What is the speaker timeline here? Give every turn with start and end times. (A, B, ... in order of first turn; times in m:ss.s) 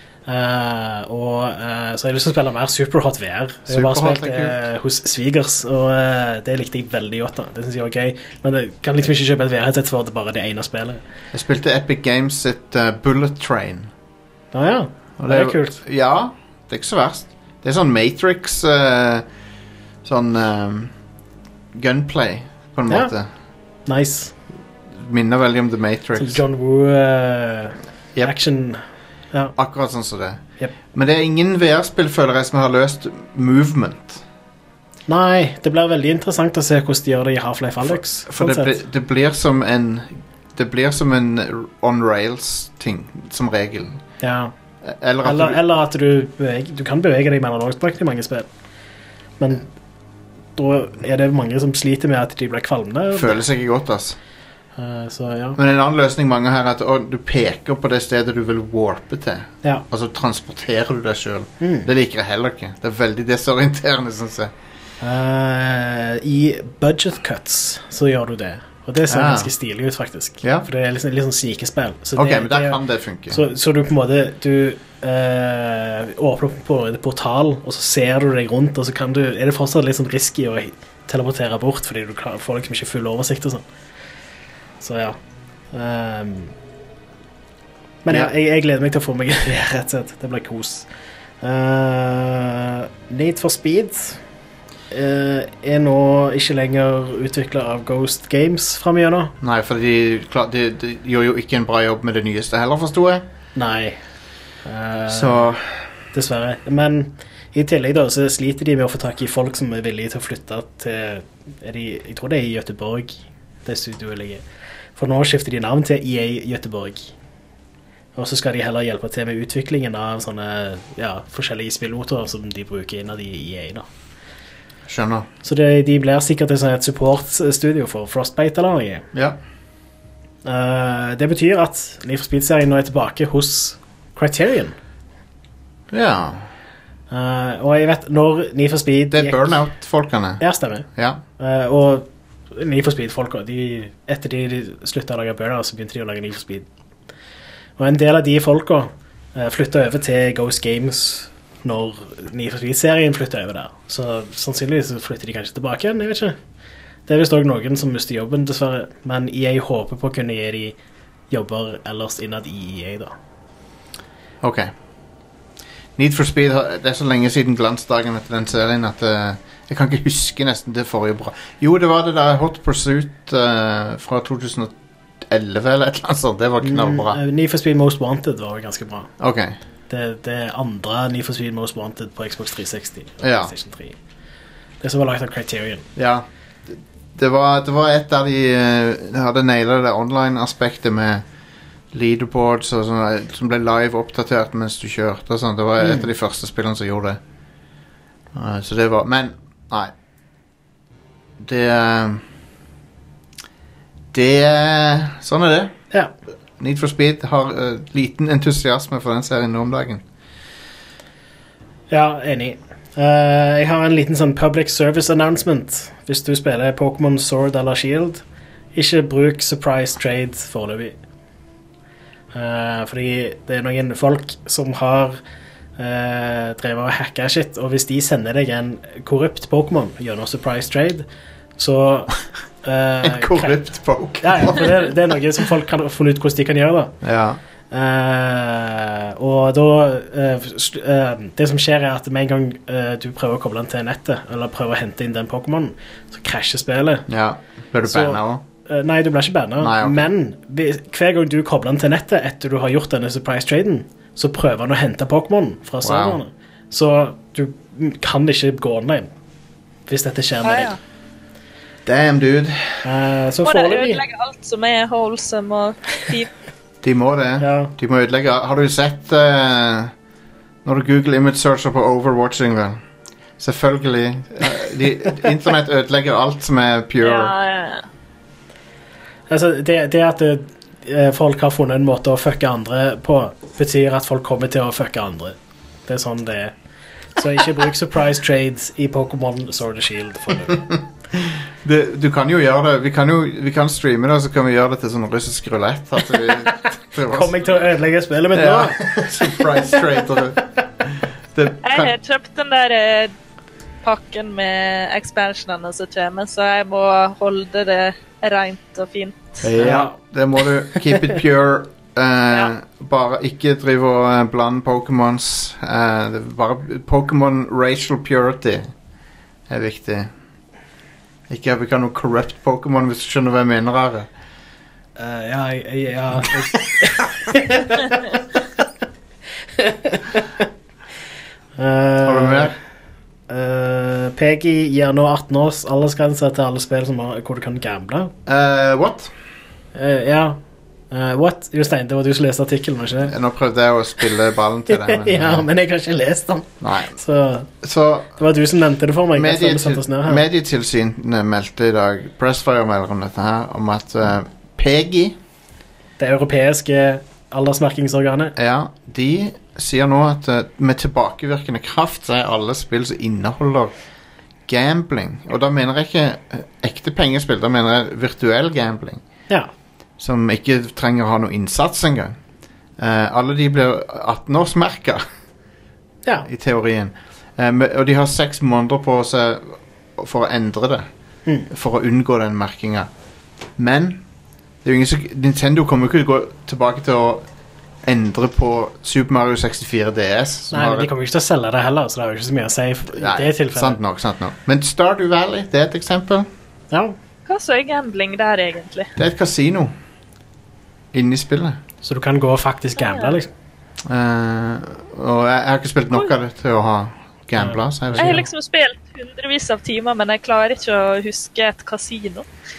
0:00.2-0:11.0 A
0:03.7-0:04.6 B
0:11.3-0:13.9 B
0:14.5-0:15.8 A
0:15.2-0:19.2 B
0:20.0-0:20.9 B
0:21.7-0:23.3 B
0:22.9-0:23.1 A
0:23.8-0:24.4 A
0:24.9-0:26.4 B
0:26.2-0:28.8 A
0:29.6-0:30.4 B
0:30.9-0:34.2 B
0:35.1-0:38.8 A
0:37.8-0:44.0 B
0:44.2-0:44.5 A
0:44.8-0:45.6 B
0:45.2-0:48.5 A
0:49.4-0:49.7 A
0:50.6-0:53.4 A
0:53.1-0:54.2 B
0:54.8-0:55.6 A
0:55.6-1:04.5 B
1:01.6-1:01.9 A
1:05.0-1:12.8 A
1:09.1-1:09.5 B
1:10.4-1:10.7 B
1:12.1-1:13.4 B
1:13.3-1:23.6 A
1:24.8-1:25.2 A
1:25.7-1:26.5 A
1:28.0-1:30.9 A
1:31.4-1:34.2 A
1:34.9-1:39.3 A
1:39.4-1:43.2 B
1:43.5-1:44.0 A
1:44.6-1:45.5 A
1:45.1-1:45.9 B
1:46.1-1:54.4 A
1:55.0-1:57.1 A
1:58.2-2:03.8 A
2:04.9-2:05.3 B
2:05.4-2:09.1 A
2:09.1-2:09.4 B
2:10.4-2:14.7 A
2:15.9-2:16.5 B
2:17.1-2:19.6 A
2:19.1-2:20.4 B
2:20.4-2:20.8 A
2:21.0-2:21.2 B
2:21.4-2:26.6 A
2:27.8-2:36.4 A
2:37.1-2:40.8 A
2:41.3-2:43.1 A
2:44.4-2:44.7 B
2:46.0-2:54.7 B
2:55.2-2:57.2 B
2:56.6-2:59.1 A
2:59.2-2:59.6 B
2:59.9-3:04.0 A
3:03.2-3:03.5 B
3:04.8-3:05.9 A
3:06.0-3:11.2 B
3:11.9-3:17.2 B
3:15.8-3:16.1 A
3:18.3-3:19.9 B
3:21.4-3:22.2 B
3:24.1-3:25.7 B
3:26.6-3:30.0 B
3:31.9-3:38.2 A
3:38.7-3:41.0 A
3:42.3-3:45.2 A
3:45.8-3:51.0 A
3:51.6-3:53.6 A
3:53.0-3:54.9 B
3:54.2-3:56.9 A
3:57.0-3:57.4 B
3:57.7-4:07.0 A
4:07.1-4:08.4 B
4:07.8-4:19.1 A
4:09.6-4:10.0 B
4:15.8-4:16.2 B
4:19.9-4:20.7 A
4:20.4-4:20.8 C
4:21.8-4:22.8 B
4:22.8-4:24.0 A
4:23.4-4:26.3 C
4:26.8-4:29.9 B
4:27.4-4:27.7 A
4:30.6-4:32.8 B
4:33.4-4:37.3 B
4:37.0-4:37.8 C
4:39.3-4:46.5 A
4:47.2-4:50.7 A
4:51.2-4:57.4 B
4:56.4-4:59.8 A
4:58.3-5:01.9 B
5:01.6-5:03.1 C
5:03.8-5:09.4 C
5:09.4-5:18.7 B
5:09.6-5:10.0 A
5:19.5-5:20.1 B
5:21.3-5:24.1 B
5:25.0-5:28.2 A
5:29.6-5:30.4 A
5:31.6-5:32.5 A
5:32.0-5:32.6 B
5:33.3-5:38.1 A
5:38.2-5:39.1 B
5:39.7-5:40.4 A
5:40.9-5:43.1 A
5:43.0-5:45.4 B
5:44.7-5:47.5 A
5:46.6-5:47.0 B
5:47.6-5:48.2 B
5:48.2-5:50.2 A
5:49.1-5:55.2 B
5:56.0-5:58.3 A
5:58.4-6:03.7 B
6:04.5-6:09.0 B
6:10.0-6:12.2 B
6:12.8-6:15.0 B
6:16.2-6:20.9 B
6:21.5-6:22.9 B
6:23.6-6:24.0 B
6:24.6-6:27.2 B
6:27.8-6:30.9 B
6:30.5-6:33.8 A
6:32.9-6:36.3 B
6:37.3-6:38.9 C
6:39.0-6:39.7 B
6:40.9-6:41.6 B
6:41.8-6:43.3 A
6:42.8-6:43.2 C
6:43.8-6:48.2 B
6:47.4-6:48.2 A
6:48.0-6:52.2 C